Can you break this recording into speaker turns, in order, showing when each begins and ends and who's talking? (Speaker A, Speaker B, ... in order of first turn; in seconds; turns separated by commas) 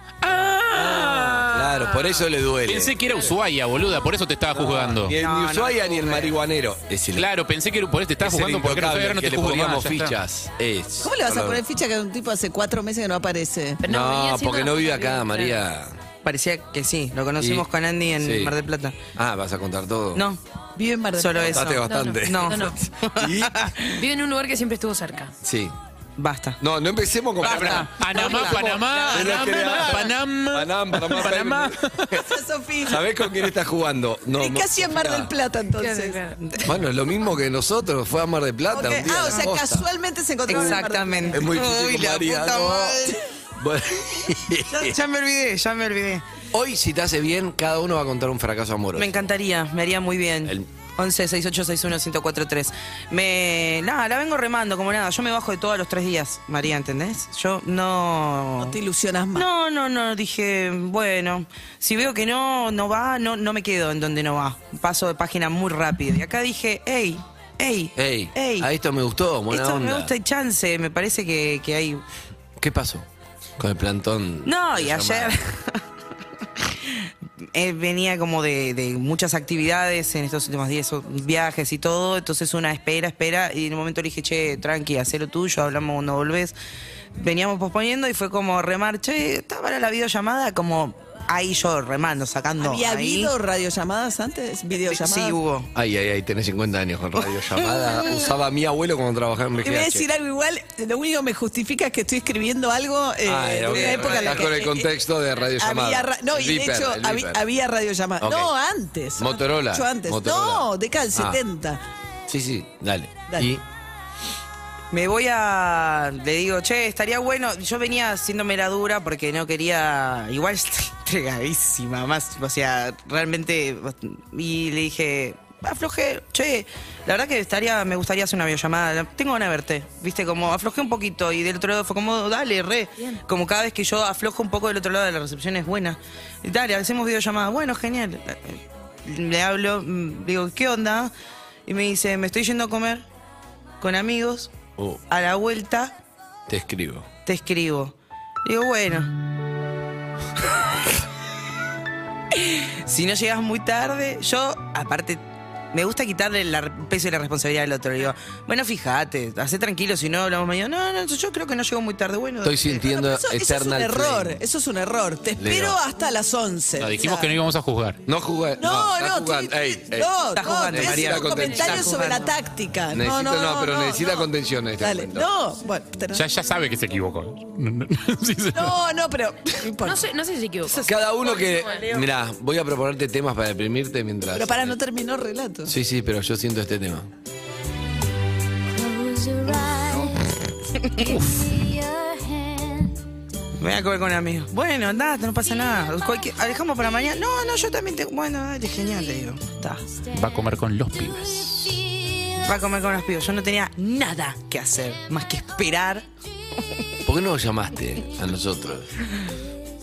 Speaker A: 0.2-2.0, Speaker B: 0.7-3.0, Speaker A: 2.6-5.2, Speaker B: 4.5-7.3, Speaker C: 5.1-6.4, Speaker A: 7.2-10.2, Speaker B: 8.2-11.6, Speaker D: 11.0-13.8, Speaker E: 13.8-15.6, Speaker B: 13.8-16.0, Speaker C: 16.2-19.0, Speaker B: 17.4-17.7, Speaker B: 18.2-18.5, Speaker B: 19.1-20.2, Speaker C: 20.1-20.4, Speaker D: 20.8-21.7, Speaker C: 21.2-24.0, Speaker B: 21.4-23.7, Speaker E: 21.8-22.8, Speaker E: 23.9-25.3, Speaker B: 25.4-25.8, Speaker C: 26.2-26.6, Speaker B: 26.6-32.2, Speaker C: 27.4-29.9, Speaker A: 27.4-32.2, Speaker D: 32.2-33.0, Speaker B: 32.9-35.3, Speaker D: 34.4-36.3, Speaker E: 35.8-36.4, Speaker B: 36.6-39.9, Speaker D: 38.7-41.5, Speaker C: 40.5-43.2, Speaker B: 40.5-45.0, Speaker C: 44.7-46.2, Speaker B: 46.5-49.3, Speaker C: 49.0-58.8, Speaker D: 58.6-59.5, Speaker C: 59.4-68.7, Speaker B: 68.0-70.1, Speaker C: 69.5-72.0, Speaker B: 72.6-73.1, Speaker B: 73.6-75.4, Speaker C: 74.5-75.8, Speaker C: 76.7-86.6, Speaker C: 87.2-93.3, Speaker D: 92.6-95.4, Speaker C: 94.8-95.7, Speaker B: 95.7-100.1, Speaker D: 99.6-104.9, Speaker B: 103.2-107.4, Speaker C: 103.7-104.5, Speaker D: 105.6-111.8, Speaker B: 108.2-108.5, Speaker B: 109.2-111.4, Speaker B: 112.3-113.6, Speaker C: 114.9-141.1, Speaker C: 141.7-143.1, Speaker C: 143.8-144.5, Speaker C: 145.1-146.0, Speaker B: 146.5-147.1, Speaker C: 147.3-149.1, Speaker C: 152.3-155.2, Speaker C: 155.7-162.9, Speaker B: 162.4-164.4, Speaker D: 162.8-167.3, Speaker B: 165.4-165.8, Speaker A: 166.8-168.0, Speaker B: 168.1-170.1, Speaker D: 168.6-174.3, Speaker C: 170.3-172.3, Speaker B: 170.7-171.9, Speaker B: 172.9-175.3, Speaker D: 174.8-176.2, Speaker A: 176.1-178.8, Speaker D: 178.6-180.1, Speaker E: 179.8-180.8, Speaker C: 180.7-181.9, Speaker B: 180.9-184.8, Speaker E: 181.4-181.8, Speaker D: 184.3-185.7, Speaker B: 185.7-187.1, Speaker C: 190.8-191.2, Speaker A: 191.0-191.5, Speaker C: 193.6-199.8, Speaker A: 200.1-201.8, Speaker C: 202.4-206.1, Speaker B: 207.1-208.9